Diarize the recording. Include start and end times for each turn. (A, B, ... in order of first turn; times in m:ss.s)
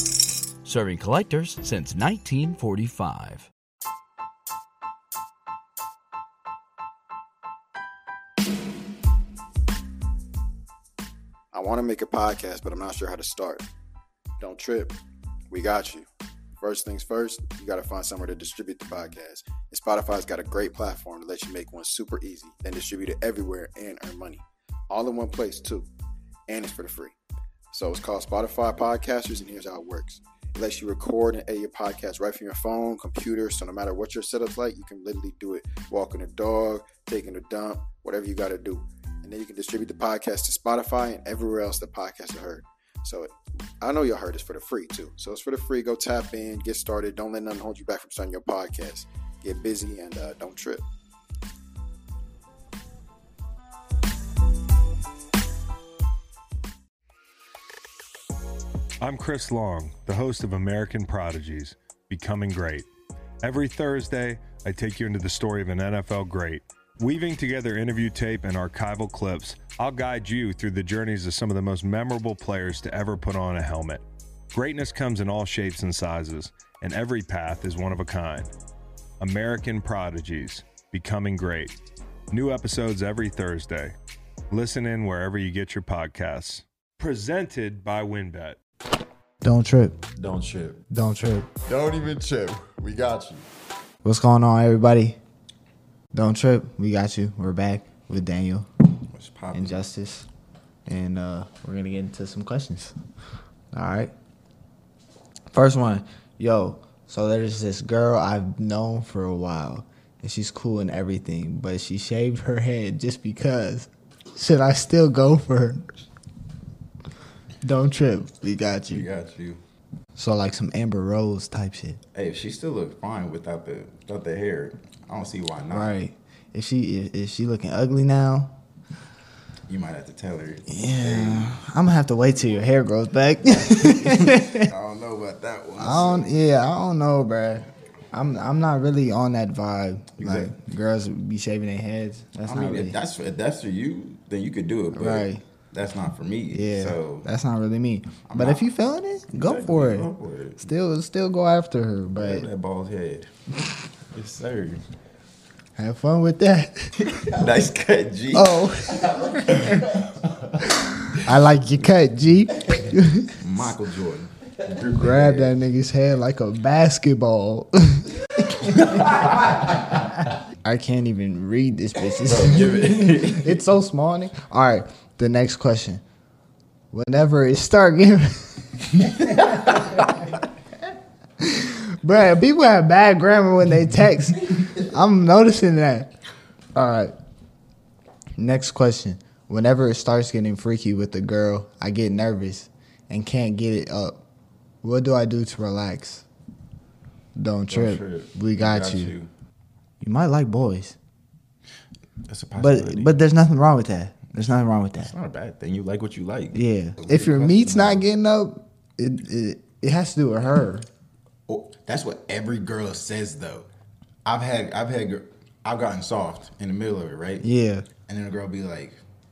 0:00.6-0:03.5 A
0:11.5-0:13.6 B
0:14.4-0:15.0 B
0:15.5-0:16.1 B
0:16.6-0:25.9 B
0:26.5-0:27.1 B
0:27.7-0:50.8 B
0:59.0-1:02.9 C
1:03.4-1:18.5 C
1:19.2-1:21.8 C
1:22.3-1:24.0 C
1:24.5-1:28.6 C
1:29.4-1:30.0 D
1:30.2-1:30.8 E
1:30.9-1:31.5 D
1:31.6-1:33.4 E
1:34.0-1:35.2 D
1:36.1-1:38.7 D
1:39.1-1:39.8 E
1:39.5-1:40.3 D
1:40.9-1:43.0 D
1:43.7-1:44.1 D
1:45.5-1:55.8 D
1:57.6-1:59.1 D
1:58.9-1:59.6 E
2:00.2-2:02.0 D
2:02.1-2:05.9 E
2:05.7-2:08.5 D
2:09.7-2:11.6 E
2:10.7-2:14.7 D
2:13.4-2:16.3 E
2:15.8-2:23.0 D
2:20.2-2:20.5 E
2:22.4-2:27.3 E
2:24.9-2:25.4 D
2:26.5-2:30.1 D
2:28.3-2:28.6 E
2:29.3-2:30.7 E
2:30.6-2:32.5 D
2:32.2-2:33.3 E
2:34.1-2:34.8 E
2:35.8-2:37.0 D
2:37.0-2:40.0 E
2:38.3-2:40.0 D
2:40.7-2:43.4 D
2:43.4-2:45.5 E
2:44.9-2:49.4 D
2:48.8-2:49.3 E
2:50.6-2:56.0 D
2:52.2-2:53.6 E
2:56.9-3:00.2 D
2:59.4-3:00.0 E
3:01.4-3:06.1 D
3:06.8-3:07.1 D
3:08.4-3:14.2 D
3:14.8-3:16.2 D
3:17.3-3:19.1 D
3:17.7-3:19.3 E
3:20.0-3:21.0 D
3:22.3-3:23.1 E
3:22.6-3:25.1 D
3:25.0-3:28.0 E
3:26.5-3:30.9 D
3:31.5-3:33.7 E
3:34.2-3:37.4 E
3:37.4-3:37.9 D
3:38.0-3:39.0 E